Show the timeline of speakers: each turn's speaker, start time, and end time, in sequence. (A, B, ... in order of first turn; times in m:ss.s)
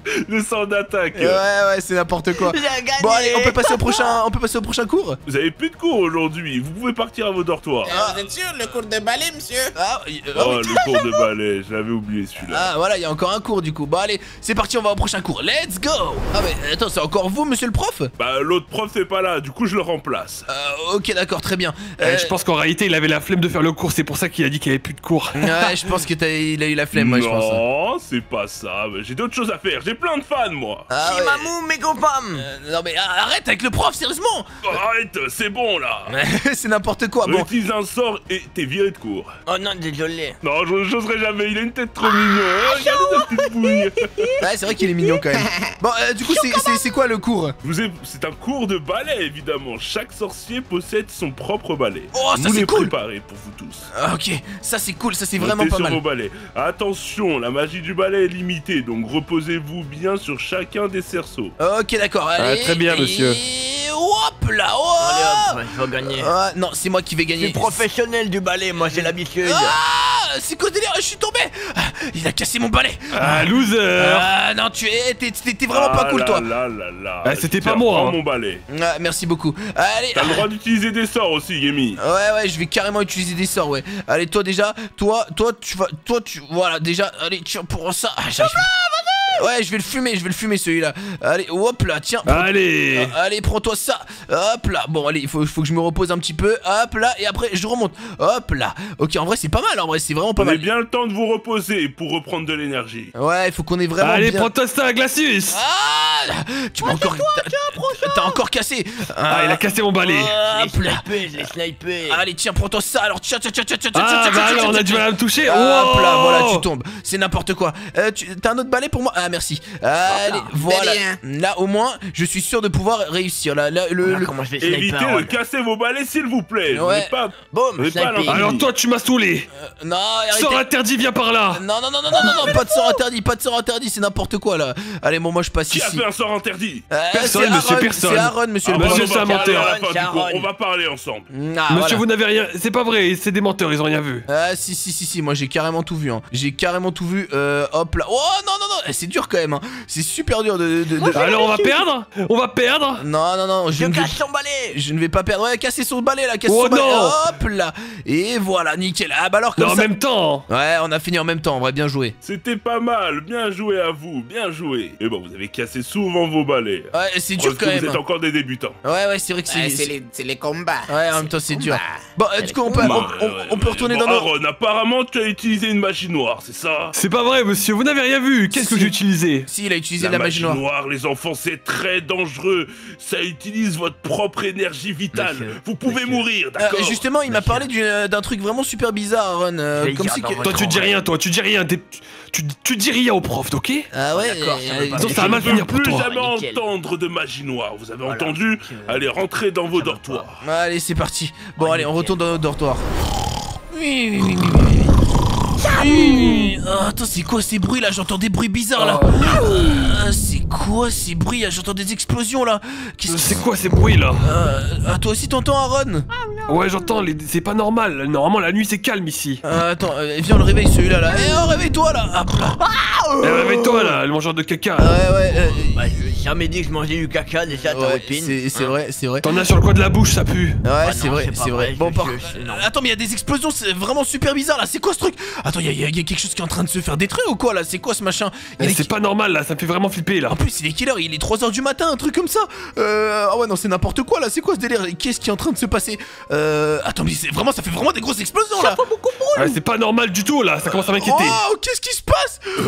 0:00.3-0:01.4 A
0:01.1-0:05.2 B
0:02.4-0:04.1 C
0:05.3-0:07.9 A
0:07.8-0:09.7 D
0:07.8-0:08.3 B
0:09.7-0:11.0 B
0:10.3-0:12.7 A
0:10.8-0:11.2 C
0:12.5-0:18.1 B
0:18.2-0:20.4 A
0:20.5-0:22.3 B
0:22.0-0:25.8 E
0:25.4-0:27.6 B
0:26.9-0:30.8 A
0:30.9-0:31.5 B
0:31.0-0:32.4 C
0:32.3-0:34.5 B
0:34.6-0:36.1 A
0:36.1-0:37.5 B
0:37.2-0:39.3 A
0:39.5-0:40.4 C
0:40.4-0:44.2 A
0:42.0-0:45.2 C
0:44.4-0:47.5 B
0:46.3-0:47.0 C
0:47.6-0:53.9 A
0:52.1-0:52.9 B
0:53.9-0:56.0 B
0:55.4-1:01.5 A
1:01.6-1:07.8 B
1:02.4-1:03.4 E
1:05.0-1:06.3 C
1:07.4-1:09.8 C
1:09.4-1:16.4 B
1:13.1-1:14.3 E
1:15.7-1:18.6 A
1:17.2-1:18.2 E
1:18.7-1:20.4 B
1:20.1-1:22.0 A
1:22.0-1:28.7 B
1:28.4-1:29.4 C
1:29.4-1:40.7 B
1:32.2-1:33.1 E
1:40.4-1:43.1 A
1:43.2-1:44.5 B
1:44.0-1:45.6 E
1:45.5-1:51.5 B
1:46.8-1:48.4 C
1:49.3-1:50.3 E
1:50.4-1:52.2 C
1:52.1-2:04.3 B
1:53.9-1:56.6 E
2:00.6-2:01.2 D
2:04.0-2:05.4 C
2:04.6-2:08.7 A
2:06.7-2:07.1 B
2:07.5-2:08.5 C
2:08.3-2:09.5 E
2:09.6-2:10.6 B
2:10.3-2:11.6 E
2:11.5-2:16.0 B
2:12.2-2:12.9 C
2:15.7-2:16.9 A
2:16.9-2:19.2 B
2:17.1-2:19.7 E
2:18.6-2:21.3 A
2:19.2-2:20.5 C
2:21.3-2:22.0 B
2:21.7-2:24.2 E
2:24.3-2:31.3 B
2:31.0-2:31.8 C
2:31.1-2:33.0 E
2:33.0-2:34.1 B
2:33.7-2:34.8 C
2:34.7-2:39.9 B
2:36.5-2:37.2 E
2:39.6-2:40.4 E
2:40.5-2:42.1 B
2:42.2-2:48.8 A
2:46.9-2:48.0 B
2:48.8-2:49.9 B
2:49.5-2:53.0 D
2:50.9-2:54.3 B
2:52.7-2:56.9 A
2:56.9-2:59.5 E
2:58.5-2:58.9 B
2:59.5-3:00.6 B
3:00.0-3:07.0 A
3:05.1-3:06.2 C
3:06.6-3:10.6 B
3:07.3-3:07.7 C
3:09.8-3:11.0 C
3:10.4-3:13.9 E
3:13.9-3:15.3 B
3:14.1-3:16.6 C
3:15.0-3:16.1 E
3:15.2-3:20.4 A
3:18.0-3:19.0 C
3:19.7-3:20.2 C
3:20.4-3:22.9 B
3:21.6-3:22.4 C
3:23.7-3:24.9 B
3:25.6-3:26.5 C
3:25.6-3:33.5 B
3:28.8-3:29.4 E
3:29.1-3:29.9 C
3:33.1-3:34.3 E
3:34.2-3:36.1 B
3:36.1-3:36.9 C
3:36.5-3:39.4 E
3:39.4-3:42.6 B
3:42.7-3:43.1 C
3:43.2-3:44.9 E
3:43.3-3:43.9 B
3:44.8-3:45.8 B
3:45.3-3:48.7 C
3:47.7-3:49.2 B
3:49.2-3:50.6 E
3:50.6-3:58.9 B
3:50.8-3:52.7 C
3:58.6-4:00.4 E
4:00.3-4:08.8 B
4:08.5-4:09.6 C
4:09.3-4:11.4 E
4:10.6-4:12.4 B